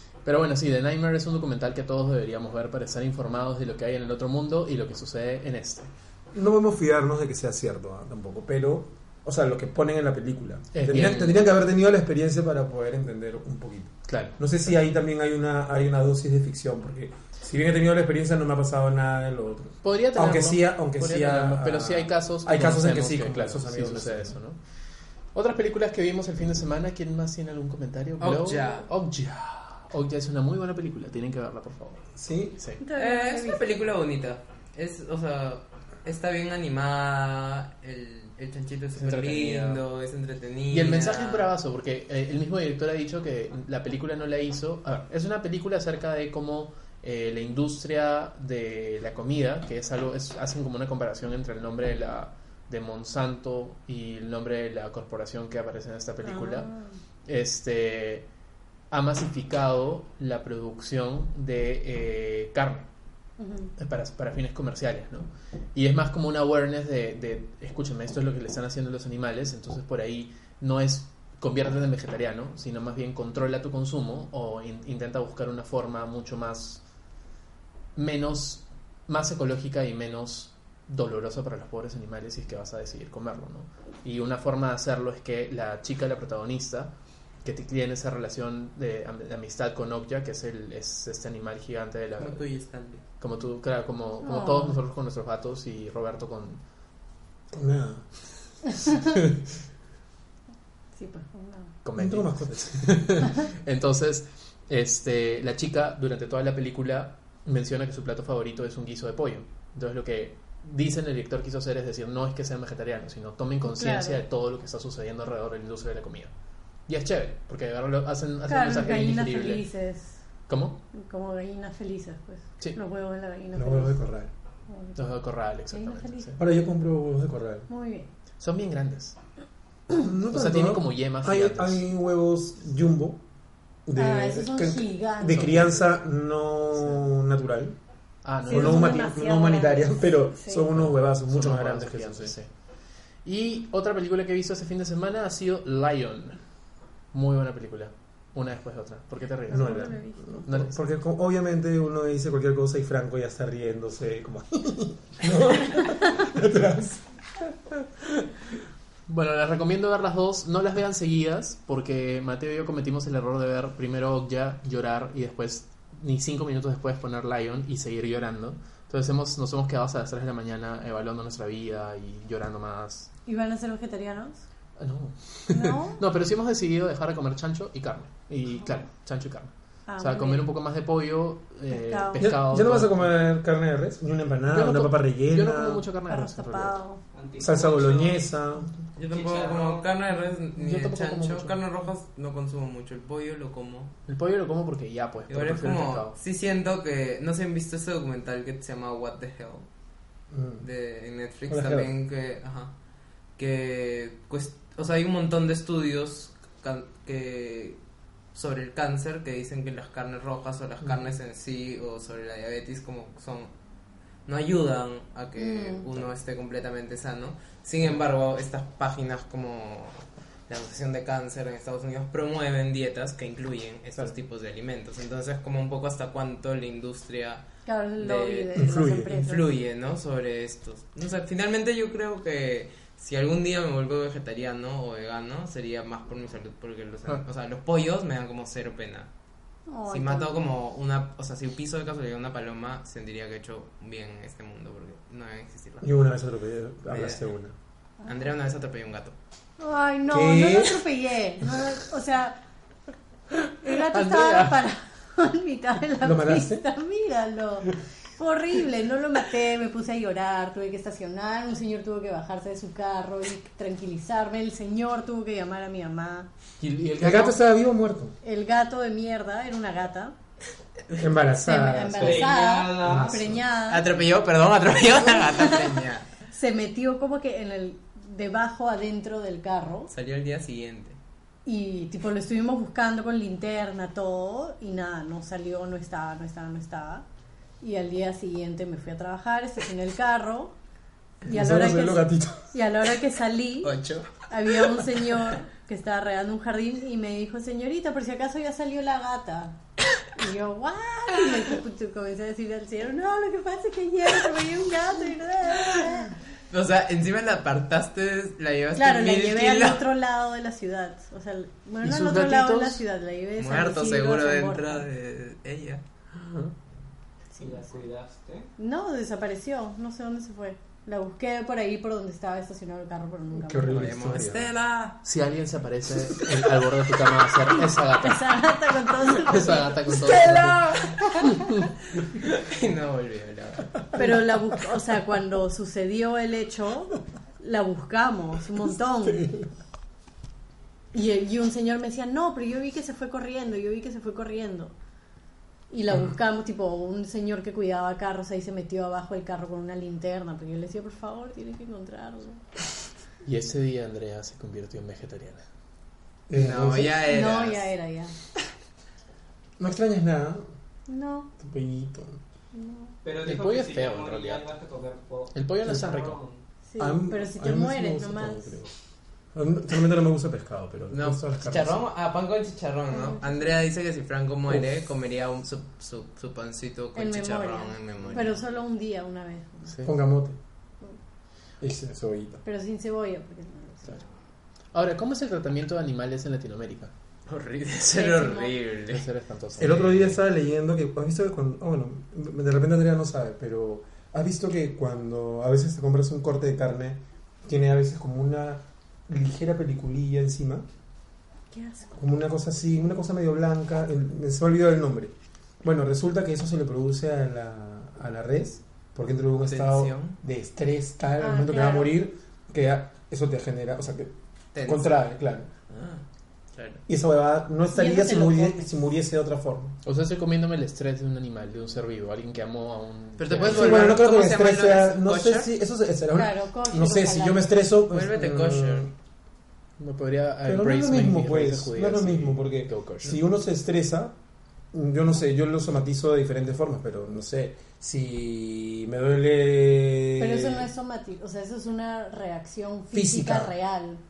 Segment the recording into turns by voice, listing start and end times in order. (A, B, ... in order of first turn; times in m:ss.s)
0:00.2-0:05.9 A
0:06.3-0:24.4 B
0:10.7-0:11.4 A
0:14.1-0:14.4 A
0:19.8-0:24.6 A
0:25.3-0:32.8 A
0:28.2-0:28.9 C
0:32.2-0:32.6 B
0:32.8-0:33.6 D
0:33.0-0:41.5 C
0:39.0-0:39.8 A
0:40.7-0:56.7 A
0:56.2-0:56.9 D
0:57.2-0:58.3 A
0:58.9-1:02.9 A
1:03.4-1:03.7 D
1:03.8-1:16.8 A
1:18.0-1:26.9 A
1:27.4-1:32.4 A
1:32.2-1:33.0 C
1:33.2-1:36.6 A
1:34.2-1:34.8 D
1:37.5-1:38.1 B
1:41.0-1:41.7 D
1:41.8-1:56.3 A
1:41.9-1:43.1 B
1:53.6-1:54.2 D
1:56.8-1:59.6 A
1:58.5-2:00.2 D
2:00.5-2:00.8 A
2:00.9-2:04.0 D
2:03.5-2:04.3 B
2:04.7-2:05.0 D
2:05.0-2:06.4 A
2:05.7-2:06.3 D
2:06.4-2:07.7 B
2:07.7-2:08.1 D
2:08.4-2:09.2 A
2:09.9-2:13.2 B
2:10.3-2:11.8 A
2:13.9-2:17.8 B
2:13.9-2:15.6 D
2:15.3-2:15.9 A
2:18.2-2:19.1 A
2:18.4-2:22.3 B
2:18.4-2:20.7 D
2:20.7-2:22.5 A
2:23.2-2:26.4 A
2:27.1-2:30.8 A
2:29.5-2:30.2 D
2:29.5-2:37.0 B
2:39.1-2:53.1 A
2:53.2-2:54.4 D
2:54.8-3:03.1 A
2:55.5-2:56.0 D
2:59.9-3:00.4 D
3:01.7-3:02.3 D
3:02.2-3:05.8 B
3:04.5-3:06.8 A
3:06.1-3:07.0 D
3:07.1-3:08.2 E
3:07.4-3:08.7 B
3:09.0-3:13.9 C
3:09.1-3:09.9 E
3:10.5-3:11.6 A
3:14.1-3:16.1 A
3:15.3-3:19.7 C
3:20.3-3:20.6 B
3:20.6-3:22.7 C
3:21.5-3:21.9 B
3:23.4-3:27.8 C
3:28.3-3:33.5 C
3:34.2-3:47.4 C
3:35.4-3:35.9 D
3:47.6-3:49.5 D
3:48.0-3:59.1 C
3:48.6-3:49.2 B
3:59.7-4:00.4 D
3:59.9-4:05.9 C
4:05.8-4:07.5 B
4:06.9-4:07.2 C
4:08.0-4:09.2 C
4:09.6-4:12.4 D
4:10.1-4:10.8 B
4:13.3-4:14.6 A
4:13.6-4:26.3 D
4:16.0-4:16.6 B
4:26.6-4:27.4 A
4:27.0-4:28.2 B
4:28.2-4:30.1 D
4:31.0-4:32.3 B
4:31.4-4:33.9 D
4:32.0-4:33.2 E
4:32.8-4:33.4 B
4:33.7-4:36.1 C
4:35.0-4:35.8 D
4:36.3-4:39.9 D
4:39.9-4:41.0 C
4:41.4-4:47.0 D
4:47.6-4:50.5 D
4:51.2-4:52.5 B
4:51.2-4:53.7 D
4:53.6-4:54.2 C
4:54.3-5:06.1 D
5:06.5-5:09.8 C
5:08.7-5:14.8 D
5:11.8-5:12.8 A
5:13.4-5:15.8 C
5:16.2-5:16.5 A
5:17.4-5:17.7 D
5:17.4-5:18.5 E
5:18.6-5:23.9 D
5:23.3-5:24.5 B
5:23.7-5:25.0 C
5:25.0-5:28.4 A
5:27.5-5:30.1 D
5:29.1-5:30.6 A
5:29.9-5:31.0 C
5:30.8-5:31.4 D
5:31.3-5:31.7 A
5:32.0-5:33.8 C
5:34.0-5:39.3 D
5:39.0-5:39.5 B
5:40.9-5:44.7 D
5:45.7-5:52.4 D
5:53.2-5:55.4 A
5:56.3-5:57.1 B
5:56.3-5:57.7 C
5:57.1-5:58.1 D
5:59.6-6:00.4 B
6:00.9-6:01.3 D
6:01.4-6:02.2 B
6:02.5-6:02.9 D
6:03.0-6:06.4 E
6:03.2-6:04.5 A
6:05.3-6:06.2 A
6:06.7-6:08.6 D
6:06.8-6:08.7 B
6:09.3-6:11.9 B
6:10.9-6:18.4 C
6:12.9-6:13.2 D
6:17.0-6:19.7 D
6:19.7-6:19.9 A
6:19.8-6:20.4 B
6:21.6-6:22.4 B
6:22.4-6:24.0 D
6:24.7-6:26.9 A
6:27.3-6:29.0 C
6:27.9-6:28.6 D
6:28.9-6:30.2 A
6:29.6-6:40.6 B
6:41.5-6:42.0 D
6:42.0-6:55.5 B
6:49.5-6:50.2 C
6:51.2-6:52.0 D
6:54.5-6:55.0 C
6:55.7-6:56.8 C
6:56.9-6:59.8 B
6:57.7-6:58.7 D
6:59.8-7:04.0 A
7:03.2-7:05.5 C
7:03.4-7:08.9 B
7:06.1-7:07.5 D
7:07.9-7:08.9 C
7:09.8-7:13.2 A
7:10.4-7:14.1 B
7:14.7-7:20.7 B
7:20.2-7:24.0 D
7:22.9-7:23.5 B